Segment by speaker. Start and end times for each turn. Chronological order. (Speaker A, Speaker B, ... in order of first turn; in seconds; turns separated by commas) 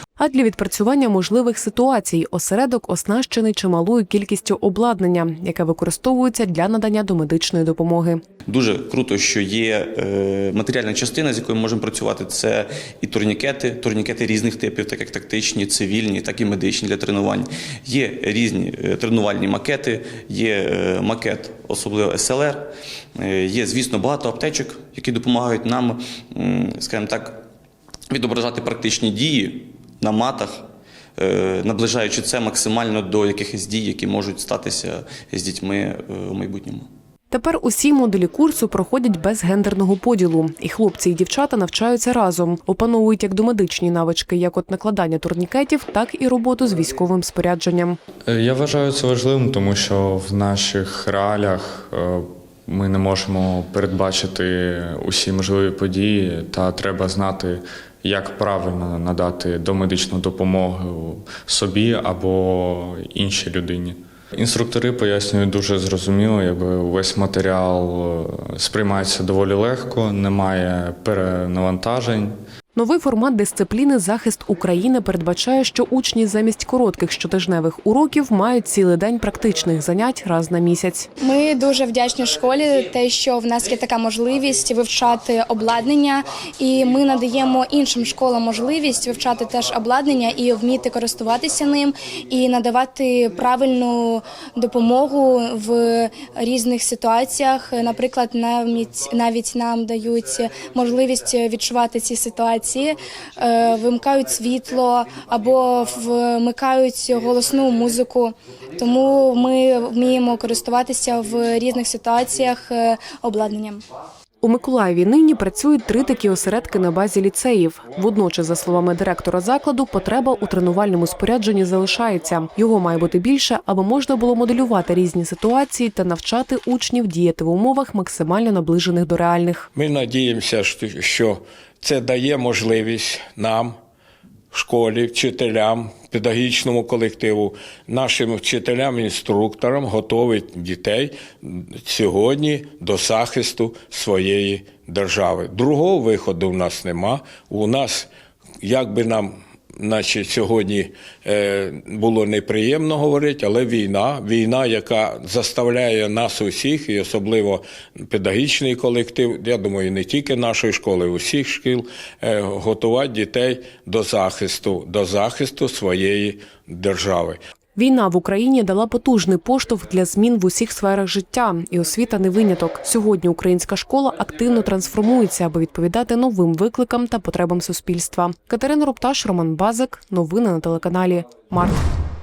Speaker A: 0.2-8.2, Speaker B: 8.4-27.4, Speaker B: 28.1-30.6, Speaker B: 31.2-36.9, Speaker A: 37.3-48.0, Speaker C: 48.3-72.4, Speaker A: 72.7-81.1, Speaker D: 81.2-113.8, Speaker A: 114.4-129.7, Speaker E: 129.7-133.8, Speaker E: 134.5-148.1, Speaker E: 148.6-167.4, Speaker A: 167.8-181.9